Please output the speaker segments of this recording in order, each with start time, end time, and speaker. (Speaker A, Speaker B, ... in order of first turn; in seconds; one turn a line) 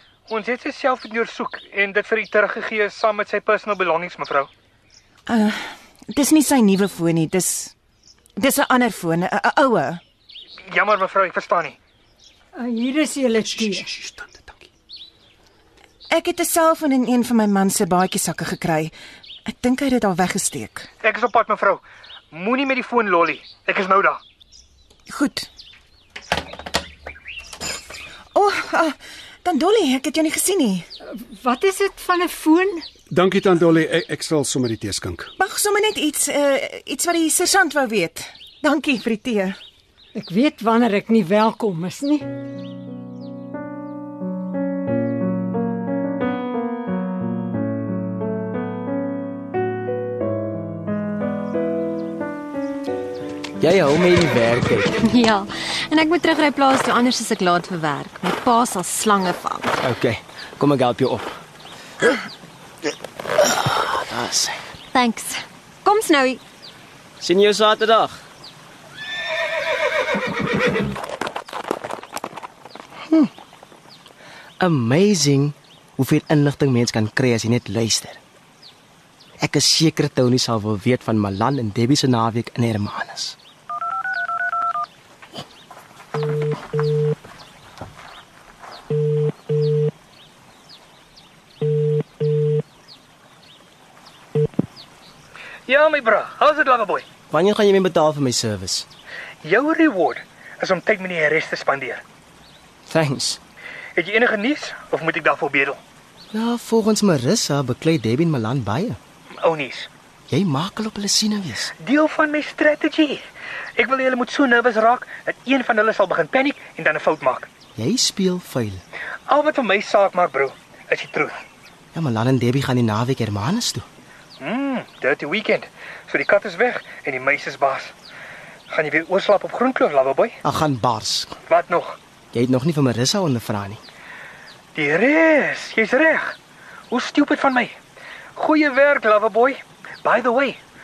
Speaker A: 0.3-4.5
Speaker B: 5.3-7.7
Speaker B: 8.4-10.0
Speaker A: 10.7-11.8
Speaker C: 12.6-13.9
Speaker D: 13.7-14.7
Speaker B: 16.1-18.9
Speaker B: 19.5-20.9
Speaker A: 21.0-21.8
Speaker A: 22.3-24.2
Speaker B: 25.1-25.5
Speaker B: 28.4-30.9
Speaker C: 31.2-32.9
Speaker D: 33.1-35.3
Speaker B: 35.4-39.6
Speaker C: 40.1-42.2
Speaker E: 53.6-54.9
Speaker F: 55.0-59.8
Speaker E: 59.8-61.4
Speaker E: 63.4-64.6
Speaker F: 64.9-66.4
Speaker E: 67.2-68.2
Speaker E: 74.6-78.2
Speaker E: 79.4-83.4
Speaker A: 95.7-97.1
Speaker E: 97.3-98.9
Speaker A: 99.4-102.0
Speaker E: 102.9-103.4
Speaker A: 104.0-105.8
Speaker E: 106.3-109.0
Speaker A: 109.4-109.9
Speaker E: 110.3-111.7
Speaker A: 111.8-113.2
Speaker A: 113.8-117.5
Speaker E: 117.8-118.8
Speaker A: 119.3-121.4
Speaker E: 121.9-123.9
Speaker A: 124.4-127.9
Speaker A: 128.7-130.4
Speaker E: 130.4-131.4
Speaker A: 131.5-132.0
Speaker E: 132.3-133.8
Speaker A: 134.8-136.3
Speaker A: 136.9-137.8
Speaker A: 138.4-140.6